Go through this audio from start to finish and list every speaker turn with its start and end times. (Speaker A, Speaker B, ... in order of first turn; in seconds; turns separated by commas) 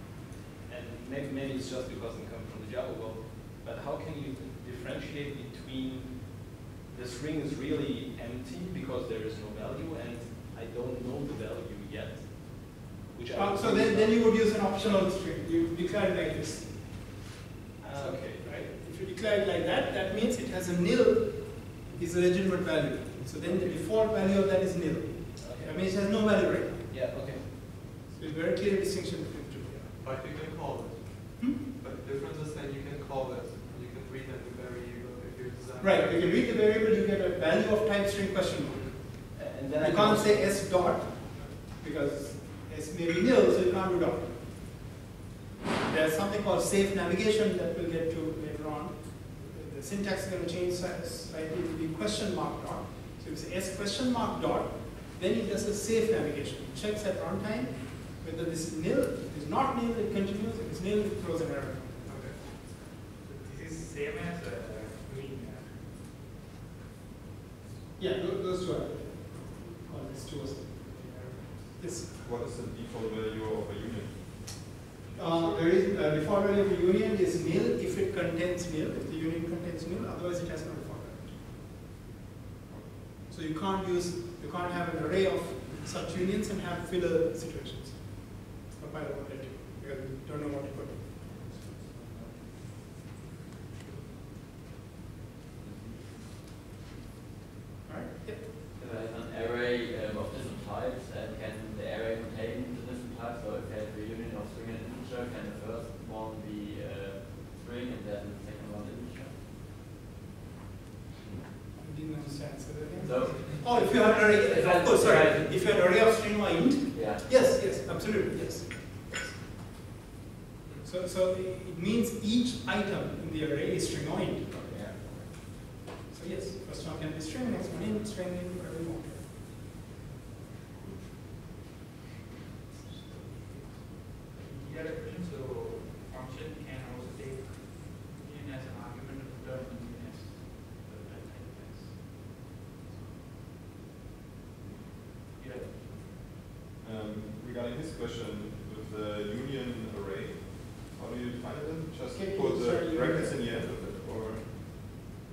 Speaker A: 0.7-15.0, Speaker B: 13.3-17.1, Speaker A: 17.8-18.5, Speaker B: 18.0-26.8, Speaker A: 25.4-25.9, Speaker A: 26.9-27.5, Speaker B: 28.1-29.9, Speaker C: 30.0-36.5, Speaker B: 35.8-44.6, Speaker A: 39.3-40.7, Speaker B: 45.8-62.2, Speaker D: 63.1-66.0, Speaker B: 68.0-72.1, Speaker E: 72.1-75.6, Speaker B: 75.1-81.4, Speaker E: 82.7-83.1, Speaker B: 83.3-91.0, Speaker F: 91.8-92.3, Speaker F: 95.6-95.9, Speaker B: 97.8-98.4, Speaker F: 98.8-109.3, Speaker B: 111.8-119.4, Speaker F: 113.2-115.5, Speaker A: 114.1-114.4, Speaker F: 117.3-117.6, Speaker B: 120.8-125.3, Speaker B: 126.1-129.2, Speaker D: 132.8-143.3, Speaker D: 145.3-146.2, Speaker E: 146.8-154.5, Speaker B: 152.1-153.6